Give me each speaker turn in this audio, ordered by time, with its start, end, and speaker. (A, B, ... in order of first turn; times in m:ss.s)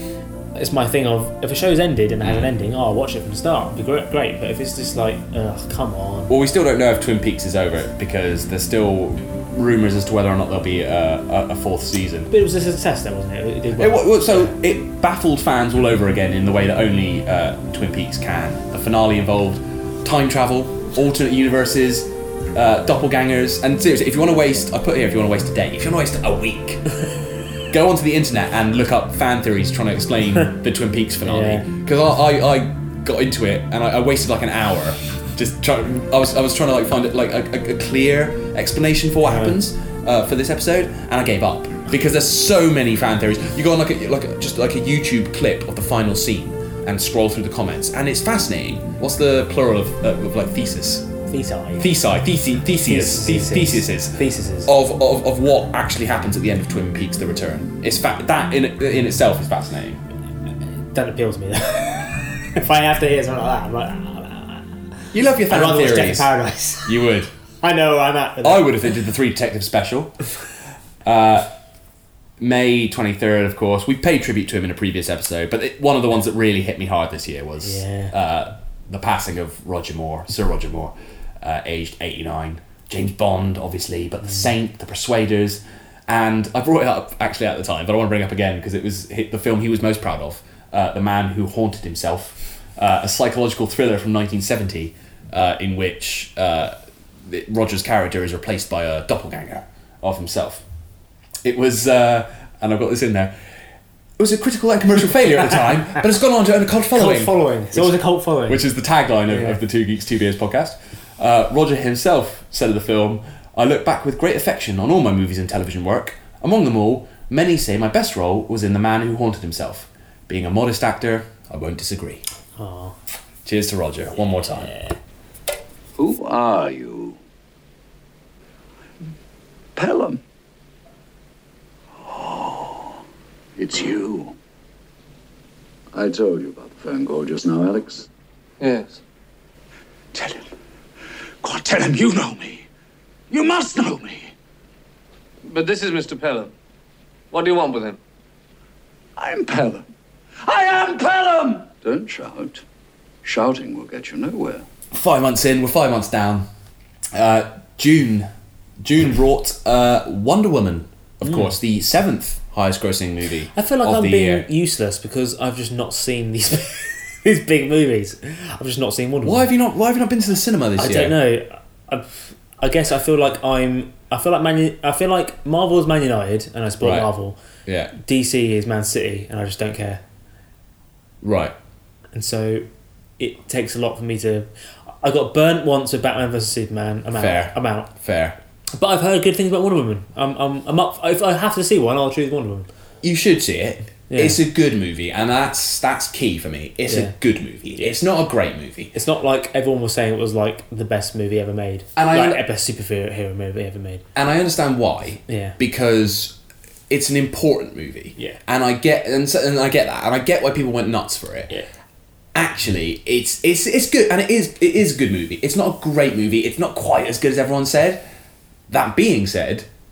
0:00.6-0:06.3 A
0:02.2-0:02.5 B
0:06.3-0:12.3 B
0:12.3-0:14.5 A
0:13.8-0:26.8 B
0:27.7-0:51.1 B
0:31.2-0:31.6 A
0:39.2-0:39.6 A
0:51.3-0:51.9 A
0:51.8-1:00.0 B
0:52.9-0:54.7 A
1:00.9-1:04.7 A
1:05.1-1:06.3 B
1:05.5-1:06.9 A
1:06.8-1:07.3 B
1:07.6-1:08.7 A
1:08.4-1:10.2 B
1:11.0-1:11.5 B
1:12.4-1:36.7 B
1:17.6-1:18.1 A
1:24.2-1:24.5 A
1:37.3-1:40.6 B
1:41.4-1:43.3 B
1:44.2-2:02.2 B
1:46.9-1:48.6 A
1:49.3-1:49.6 A
2:02.6-2:03.0 A
2:03.4-2:04.7 B
2:04.4-2:04.9 A
2:06.0-2:07.2 C
2:09.8-2:10.2 C
2:12.1-2:12.8 C
2:13.6-2:14.3 C
2:15.9-2:18.0 C
2:18.6-2:19.0 D
2:20.1-2:20.4 C
2:21.4-2:22.6 C
2:23.3-2:24.3 C
2:25.4-2:26.5 D
2:27.3-2:28.0 D
2:29.2-2:29.8 C
2:30.4-2:32.6 C
2:33.2-2:34.6 C
2:34.9-2:36.4 B
2:37.1-2:38.3 B
2:38.8-2:44.4 B
2:41.2-2:41.5 A
2:43.5-2:49.4 A
2:49.2-2:51.2 B
2:50.8-2:57.4 A
2:56.8-2:57.1 B
2:57.6-2:57.9 B
2:57.9-3:00.0 A
3:01.2-3:01.5 B
3:02.1-3:02.6 A
3:03.2-3:04.5 A
3:05.0-3:07.9 A
3:07.2-3:08.4 B
3:08.8-3:12.7 A
3:13.0-3:18.9 B
3:14.1-3:14.4 A
3:16.9-3:17.1 A
3:18.9-3:24.0 A
3:22.0-3:22.4 B
3:24.1-3:26.3 B
3:25.3-3:25.6 A
3:26.9-3:31.5 B
3:32.3-3:38.0 B
3:38.7-3:39.6 B